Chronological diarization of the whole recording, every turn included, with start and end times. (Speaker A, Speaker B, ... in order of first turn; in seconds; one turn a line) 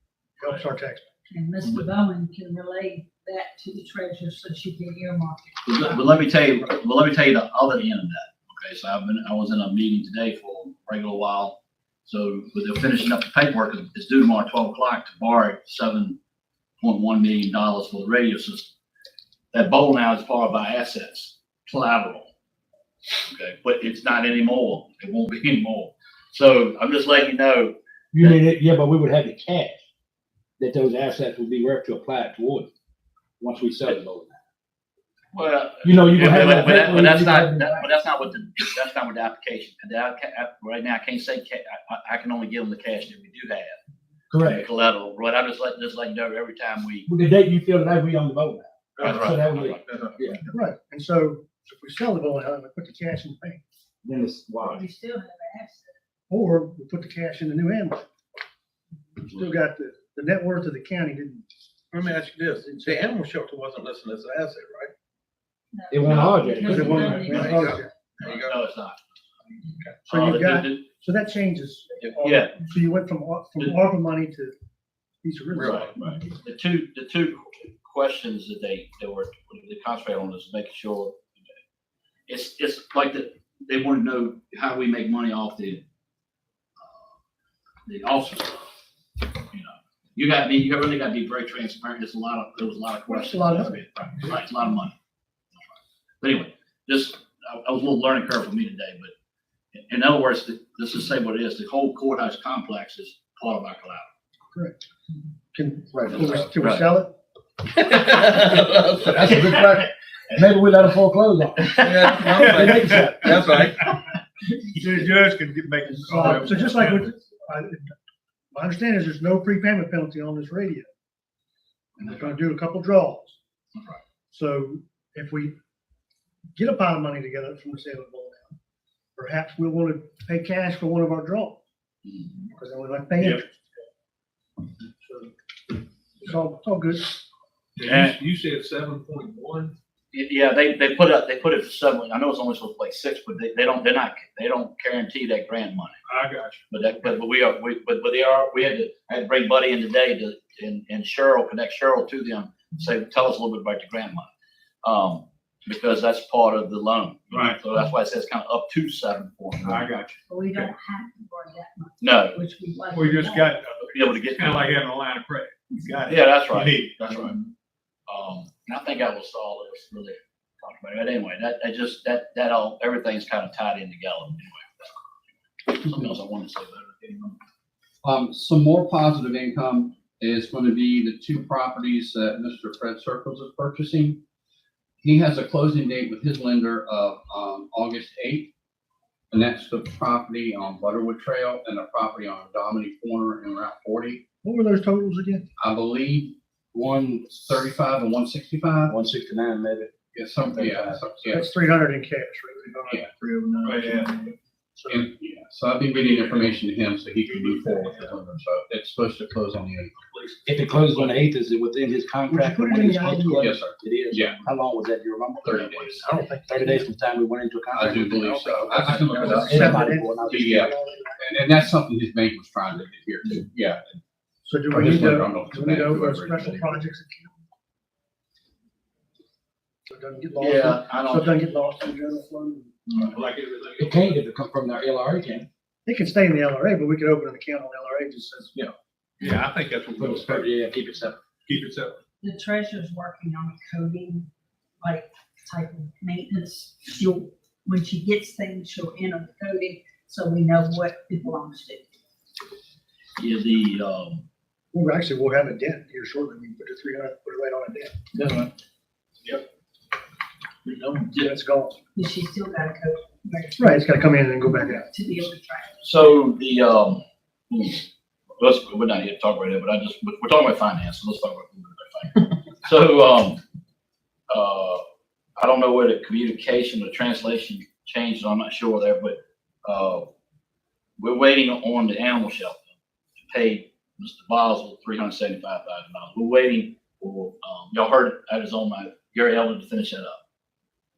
Speaker A: 0.4-1.1
Speaker B: 1.3-6.0
Speaker C: 5.7-16.2
Speaker C: 16.8-18.7
Speaker C: 19.5-22.3
Speaker C: 23.3-28.4
Speaker D: 28.1-29.9
Speaker D: 30.6-32.7
Speaker D: 33.4-34.4
Speaker C: 35.3-43.8
Speaker D: 35.8-37.9
Speaker D: 44.3-44.7
Speaker C: 44.4-47.1
Speaker D: 47.1-50.4
Speaker E: 49.0-49.3
Speaker C: 49.0-49.8
Speaker E: 49.9-50.2
Speaker A: 50.5-53.6
Speaker D: 54.0-54.8
Speaker B: 54.6-55.9
Speaker A: 56.3-58.1
Speaker A: 59.2-61.5
Speaker E: 61.9-64.9
Speaker A: 62.6-63.1
Speaker B: 65.7-67.6
Speaker D: 65.9-67.2
Speaker C: 66.0-66.5
Speaker A: 66.6-67.9
Speaker E: 67.0-68.6
Speaker C: 68.2-69.0
Speaker A: 69.8-74.5
Speaker C: 70.1-70.8
Speaker C: 72.2-72.5
Speaker A: 75.2-76.0
Speaker E: 75.6-75.8
Speaker C: 75.6-81.2
Speaker C: 82.3-85.8
Speaker C: 87.9-88.7
Speaker C: 89.5-94.9
Speaker A: 93.1-93.8
Speaker C: 96.2-99.1
Speaker C: 99.8-104.1
Speaker A: 104.5-104.8
Speaker A: 105.5-107.1
Speaker C: 106.1-106.9
Speaker E: 107.8-109.2
Speaker D: 108.4-113.2
Speaker E: 111.8-113.7
Speaker F: 112.5-113.2
Speaker F: 114.8-117.0
Speaker A: 116.0-117.9
Speaker A: 118.5-120.9
Speaker A: 122.0-123.4
Speaker A: 124.3-125.5
Speaker A: 126.6-128.6
Speaker A: 129.2-131.6
Speaker A: 132.5-133.7
Speaker A: 135.0-135.3
Speaker A: 136.2-137.1
Speaker F: 137.8-138.9
Speaker E: 137.9-139.7
Speaker C: 140.1-145.9
Speaker F: 146.1-146.6
Speaker C: 146.7-154.3
Speaker C: 154.8-159.9
Speaker F: 157.3-157.6
Speaker F: 159.7-160.7
Speaker B: 160.3-163.7
Speaker C: 162.0-162.4
Speaker F: 162.9-167.3
Speaker C: 163.9-164.8
Speaker C: 166.1-167.4
Speaker C: 168.1-174.9
Speaker C: 175.6-177.4
Speaker G: 178.0-184.2
Speaker G: 185.0-188.5
Speaker G: 189.3-194.2
Speaker A: 194.4-195.4
Speaker G: 195.6-198.9
Speaker D: 198.9-201.0
Speaker G: 200.1-201.5
Speaker A: 201.3-204.2
Speaker F: 203.7-204.2
Speaker G: 204.9-209.9
Speaker D: 210.5-220.7
Speaker A: 212.3-213.6
Speaker G: 213.3-214.4
Speaker G: 215.4-216.0
Speaker A: 216.0-216.8
Speaker G: 217.7-223.8
Speaker A: 219.1-221.2
Speaker A: 224.4-227.4
Speaker G: 224.7-226.7
Speaker A: 229.9-232.7
Speaker C: 230.4-231.3
Speaker F: 233.2-234.0
Speaker D: 233.8-235.5
Speaker A: 235.8-238.6
Speaker B: 239.2-239.5
Speaker F: 239.2-240.5
Speaker D: 240.0-241.2
Speaker F: 241.5-242.0
Speaker B: 242.2-244.3
Speaker B: 244.8-251.9
Speaker C: 253.2-254.2
Speaker A: 254.7-258.0
Speaker C: 258.1-258.5
Speaker C: 260.6-261.3
Speaker A: 261.2-261.8
Speaker B: 261.9-265.8
Speaker A: 263.6-264.9
Speaker C: 265.8-267.9
Speaker C: 268.4-273.4
Speaker C: 274.3-274.8
Speaker C: 275.4-280.1
Speaker C: 281.0-282.6
Speaker C: 283.2-290.2